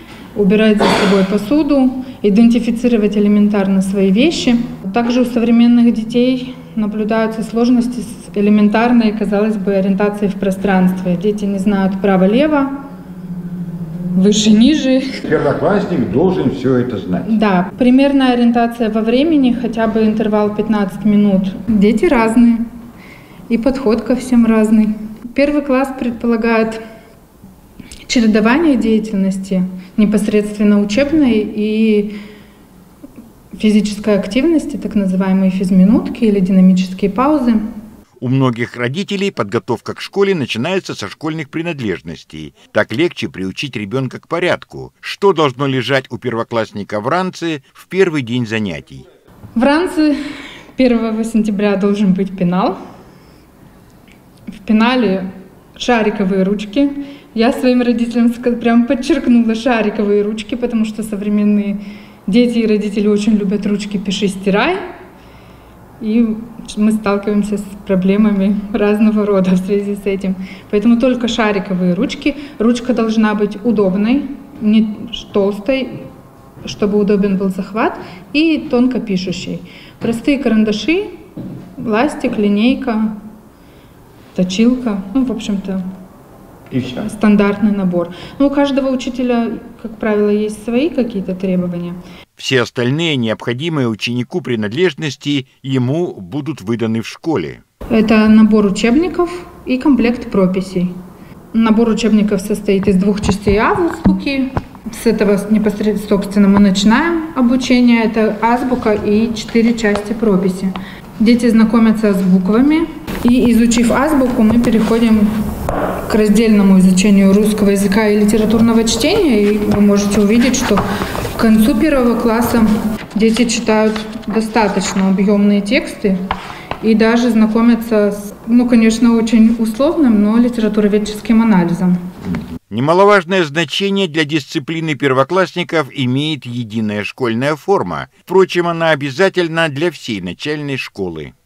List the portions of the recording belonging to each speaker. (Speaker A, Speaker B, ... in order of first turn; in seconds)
Speaker A: 0.3-12.8, 14.2-15.2, 17.3-22.6, 23.5-26.8, 28.1-32.1, 33.5-37.6, 49.5-50.1, 50.8-52.8, 54.6-55.2, 55.8-64.8, 66.0-76.0, 76.6-81.1, 81.8-83.2, 84.3-85.8, 86.8-92.0, 97.9-100.9, 101.5-115.4, 116.1-120.8, 121.3-126.2, 126.8-132.0
Speaker B: 15.2-17.3, 38.2-49.1, 92.4-97.6, 132.7-141.3